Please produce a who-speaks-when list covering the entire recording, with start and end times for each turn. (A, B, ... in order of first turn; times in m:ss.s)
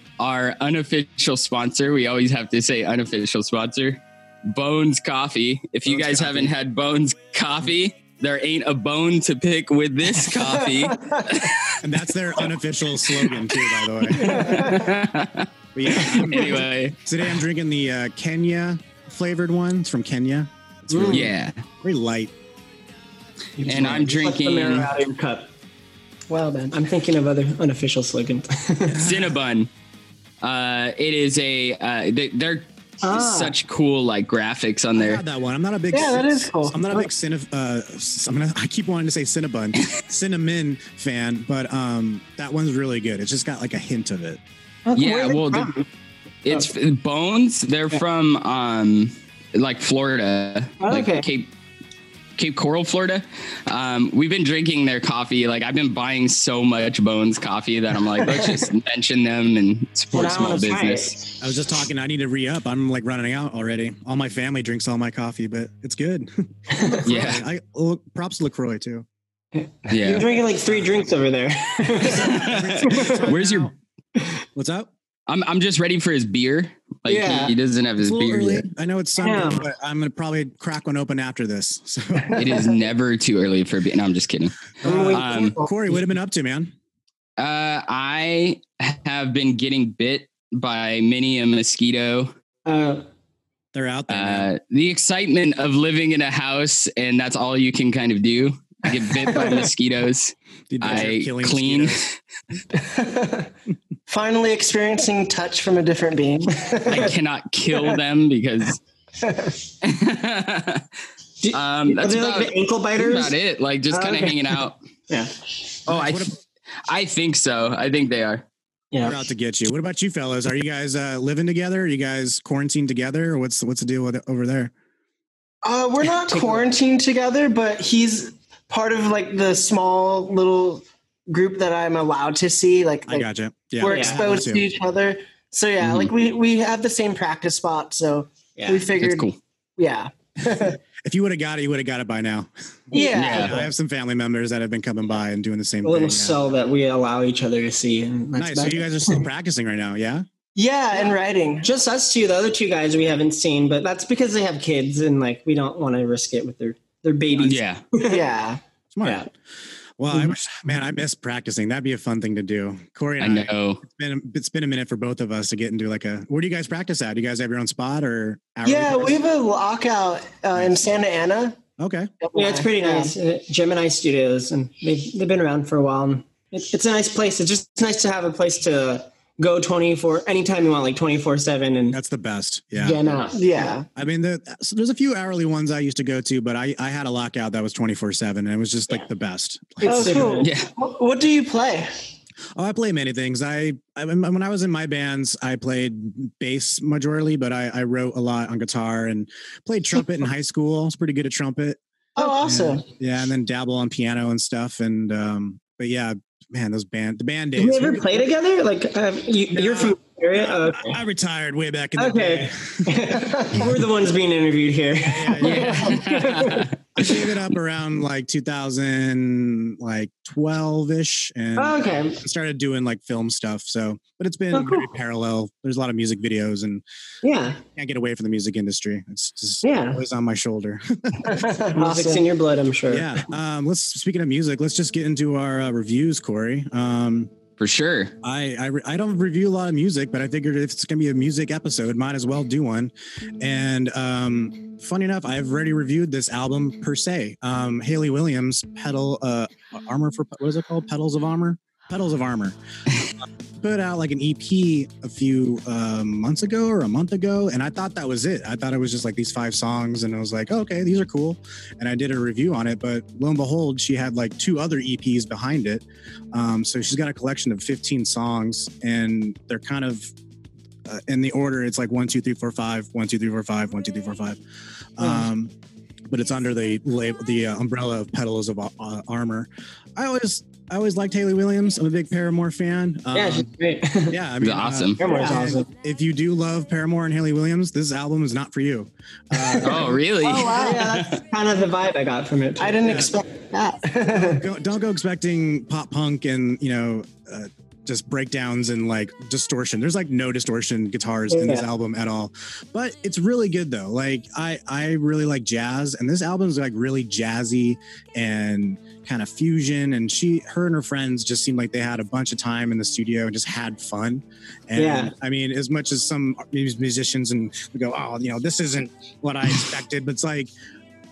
0:00.2-0:11.8 A
0:05.9-0:06.5 B
0:11.0-0:11.3 C
0:11.8-0:14.4 B
0:14.1-0:17.0 A
0:14.4-0:14.6 D
0:15.8-0:22.3 B
0:20.9-0:21.3 D
0:21.1-0:21.6 A
0:23.6-0:25.5 D
0:23.6-0:25.0 A
0:26.3-0:26.8 C
0:26.7-0:29.2 D
0:28.9-0:29.3 B
0:29.0-0:29.7 A
0:30.4-0:35.2 A
0:33.0-0:33.6 D
0:35.0-0:44.4 B
0:35.9-0:37.0 C
0:44.9-0:45.9 D
0:45.0-0:45.7 A
0:46.4-0:51.5 A
0:50.8-0:51.3 D
0:52.4-1:01.2 A
0:58.1-0:58.6 D
1:00.1-1:01.4 D
1:01.4-1:09.1 B
1:06.7-1:07.1 D
1:07.0-1:07.4 A
1:09.6-1:13.2 D
1:09.9-1:10.4 A
1:10.7-1:11.0 B
1:12.0-1:13.7 B
1:12.1-1:13.7 A
1:14.6-1:14.9 B
1:15.3-1:18.6 A
1:17.1-1:17.5 D
1:18.0-1:22.6 B
1:19.2-1:19.6 D
1:22.3-1:25.6 A
1:24.8-1:26.1 D
1:24.8-1:26.7 B
1:27.4-1:32.3 A
1:32.7-1:33.0 D
1:33.7-1:34.5 B
1:34.1-1:42.1 A
1:40.7-1:42.1 B
1:42.8-1:43.5 C
1:44.1-1:47.1 C
1:46.8-1:48.8 A
1:49.2-1:49.6 C
1:49.8-1:50.8 A
1:51.4-1:53.4 D
1:51.5-1:54.8 A
1:53.9-1:55.3 D
1:55.9-1:56.3 A
1:55.9-1:56.4 B
1:56.9-1:58.4 A
1:58.9-1:59.2 D
1:59.0-2:04.7 B
2:05.6-2:13.3 C
2:06.2-2:06.6 D
2:13.1-2:14.7 B
2:13.8-2:20.8 C
2:13.8-2:14.2 D
2:15.8-2:16.1 A
2:18.6-2:18.9 D
2:19.0-2:19.4 A
2:21.0-2:26.5 B
2:22.9-2:23.5 C
2:22.9-2:23.7 D
2:23.2-2:23.6 A
2:25.8-2:29.2 D
2:28.4-2:30.2 B
2:30.6-2:31.7 C
2:31.6-2:38.2 D
2:37.3-2:37.8 A
2:38.0-2:38.6 C
2:38.9-2:39.3 B
2:39.0-2:39.3 D
2:40.0-2:49.2 B
2:43.2-2:43.8 A
2:48.6-2:51.6 C
2:50.6-2:50.8 B
2:51.8-2:52.1 B
2:52.2-2:53.2 C
2:52.4-3:02.0 D
3:01.9-3:03.0 B
3:02.8-3:03.7 D
3:03.3-3:03.9 C
3:04.0-3:10.4 B
3:09.8-3:11.9 C
3:09.8-3:10.5 D
3:10.4-3:10.7 A
3:12.6-3:28.2 B
3:22.2-3:22.8 C
3:27.6-3:31.0 D
3:29.5-3:33.8 B
3:32.0-3:36.7 D
3:35.0-3:36.0 B
3:35.4-3:36.7 A
3:35.5-3:36.3 C
3:37.0-3:46.8 B
3:41.6-3:42.2 D
3:44.5-3:44.8 D
3:47.2-3:47.6 D
3:47.8-3:51.5 B
3:49.6-3:50.0 C
3:51.2-3:52.2 C
3:51.7-3:53.3 D
3:52.9-3:57.3 B
3:57.6-3:58.1 A
3:58.2-4:12.6 B
4:13.6-4:30.1 B
4:30.9-4:34.4 B
4:35.0-4:35.5 B
4:36.1-4:43.5 B
4:43.1-4:44.2 D
4:44.1-4:50.0 B
4:44.4-4:45.0 A
4:45.0-4:45.7 D
4:45.0-4:45.4 C
4:49.4-4:51.1 C
4:49.6-4:51.2 A
4:50.4-4:53.1 D
4:52.6-4:54.4 C
4:52.9-4:53.1 B
4:54.1-5:20.5 B
5:01.3-5:01.7 D
5:14.8-5:15.1 D